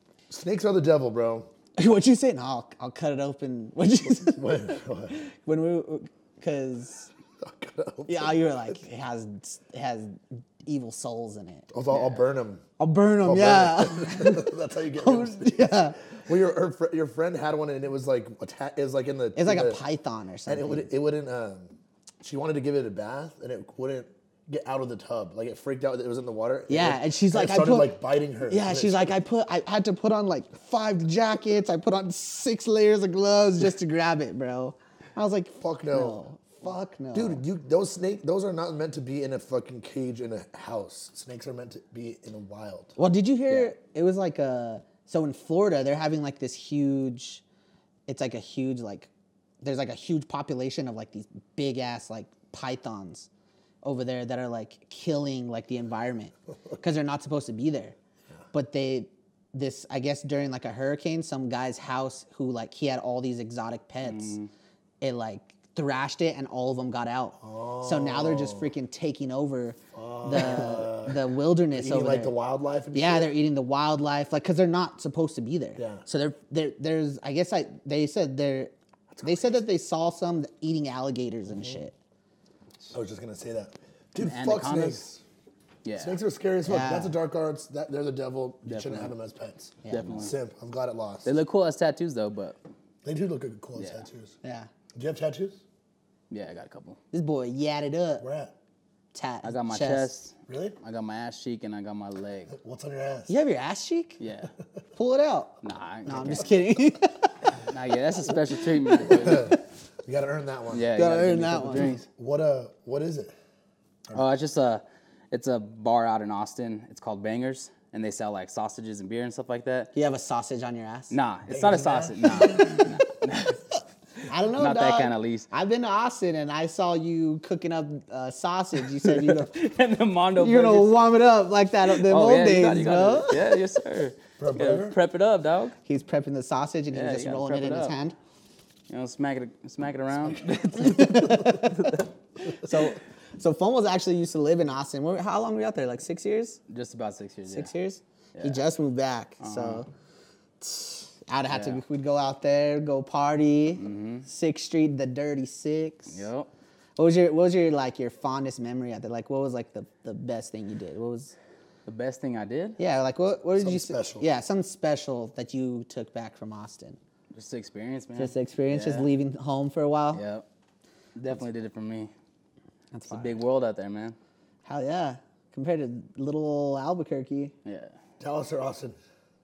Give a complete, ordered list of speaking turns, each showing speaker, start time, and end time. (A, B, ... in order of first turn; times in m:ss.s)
0:00.3-0:01.5 A
0:01.8-0:07.1 B
0:04.1-0:05.2 A
0:07.4-0:08.4 A
0:08.1-0:11.7 B
0:11.7-0:12.6 A
0:11.9-0:12.2 C
0:12.8-0:16.0 B
0:13.2-0:19.8 A
0:19.4-0:20.9 B
0:20.5-0:29.1 A
0:26.7-0:37.4 B
0:35.6-0:43.0 A
0:43.0-0:47.4 B
0:48.1-0:49.1 B
0:49.6-0:53.3 B
0:53.8-0:58.0 B
0:58.5-1:04.4 B
1:04.0-1:04.5 C
1:05.0-1:12.4 B
1:07.4-1:08.7 A
1:09.9-1:13.3 A
1:12.9-1:18.7 B
1:15.8-1:16.0 A
1:19.1-1:19.5 A
1:19.2-1:21.9 B
1:22.9-1:25.2 A
1:24.2-1:25.0 C
1:25.8-1:26.2 C
1:26.0-1:31.4 A
1:26.7-1:27.1 B
1:28.7-1:29.1 C
1:29.8-1:30.2 B
1:29.9-1:30.3 C
1:31.2-1:32.6 C
1:33.0-1:34.4 A
1:33.8-1:34.0 C
1:34.4-1:34.7 B
1:35.0-1:35.6 A
1:36.3-1:37.0 C
1:37.1-1:38.2 B
1:38.2-1:38.5 A
1:39.1-1:40.1 B
1:39.4-1:42.5 C
1:40.5-1:40.8 A
1:42.5-1:43.3 A
1:43.3-1:44.2 B
1:44.2-1:44.5 C
1:45.0-1:47.3 B
1:45.6-1:46.5 C
1:47.7-1:49.6 C
1:49.1-1:50.9 A
1:50.7-1:52.0 C
1:50.9-1:52.0 B
1:51.7-1:53.3 A
1:54.1-1:59.9 C
1:59.9-2:01.2 B
2:01.1-2:03.6 C
2:01.5-2:02.9 A
2:04.3-2:09.5 B
2:04.5-2:05.5 C
2:08.9-2:11.1 C
2:10.4-2:13.5 B
2:11.9-2:15.8 C
2:14.4-2:15.0 A
2:15.9-2:18.1 B
2:16.9-2:18.0 C
2:18.9-2:22.1 C
2:20.8-2:22.0 B
2:22.5-2:26.6 B
2:26.7-2:27.7 C
2:27.5-2:29.9 B
2:28.4-2:28.6 C
2:29.4-2:29.8 C
2:30.6-2:36.3 B
2:31.5-2:31.8 C
2:33.8-2:34.3 C
2:36.1-2:36.5 C
2:37.0-2:41.4 B
2:41.9-2:42.8 C
2:42.8-2:47.0 B
2:43.6-2:44.3 A
2:47.3-2:49.1 C
2:48.2-2:50.2 B
2:50.1-2:50.4 C
2:51.2-2:52.1 C
2:52.9-2:53.4 B
2:53.1-2:54.2 C
2:54.6-2:57.5 B
2:57.6-2:57.9 C
2:58.2-2:59.0 A